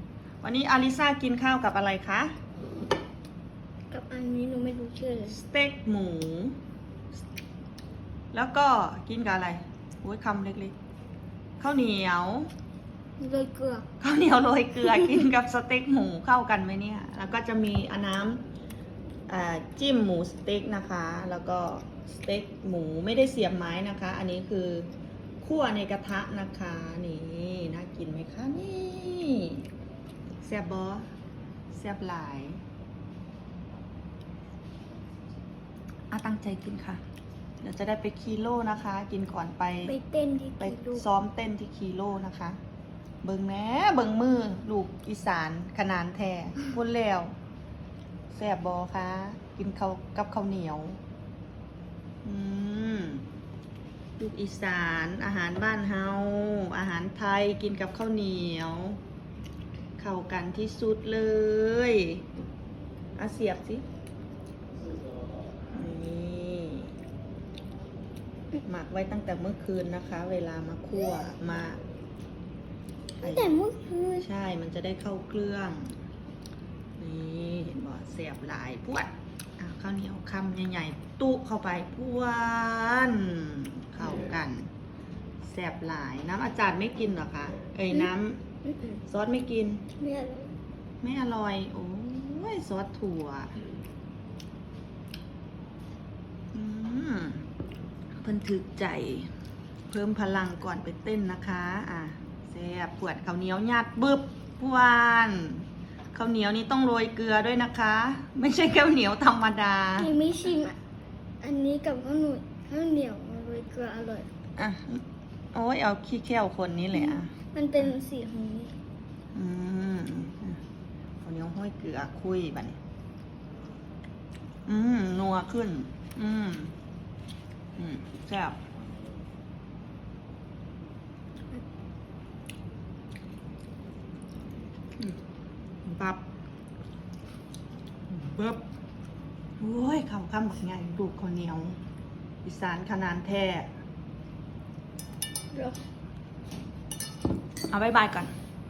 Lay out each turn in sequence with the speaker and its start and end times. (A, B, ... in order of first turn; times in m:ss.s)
0:00.4-0:02.3 A
0:03.9-0:05.4 B
0:05.3-0:06.6 A
0:08.3-0:10.7 A
0:11.6-0:12.5 A
0:13.2-0:13.8 B
0:14.0-0:18.4 A
0:19.3-0:24.9 A
0:25.4-0:29.6 A
0:30.4-0:31.1 A
0:31.7-0:32.6 A
0:36.1-0:37.0 A
0:37.6-0:39.9 A
0:39.8-0:41.0 B
0:40.6-0:42.6 A
0:43.2-0:47.3 A
0:48.3-0:51.0 A
0:52.2-0:53.2 A
0:54.2-0:59.0 A
1:00.0-1:02.2 A
1:03.2-1:03.8 A
1:05.7-1:06.9 A
1:08.6-1:11.8 A
1:13.2-1:13.5 A
1:13.2-1:14.3 B
1:14.2-1:16.0 A
1:17.0-1:24.7 A
1:25.4-1:28.4 A
1:28.6-1:29.0 B
1:29.0-1:29.8 A
1:30.0-1:30.5 B
1:31.0-1:33.6 A
1:36.5-1:37.4 A
1:38.2-1:39.3 A
1:39.9-1:50.1 A
1:50.0-1:50.8 B
1:51.4-1:54.3 B
1:54.6-1:57.3 A
1:56.9-1:58.7 B
1:59.3-2:00.6 A
2:01.2-2:02.8 A
2:04.7-2:06.7 A
2:07.8-2:08.6 A
2:15.8-2:16.2 A
2:18.1-2:18.6 A
2:19.6-2:21.8 A
2:22.4-2:23.7 A
2:25.5-2:25.8 B
2:27.7-2:28.3 A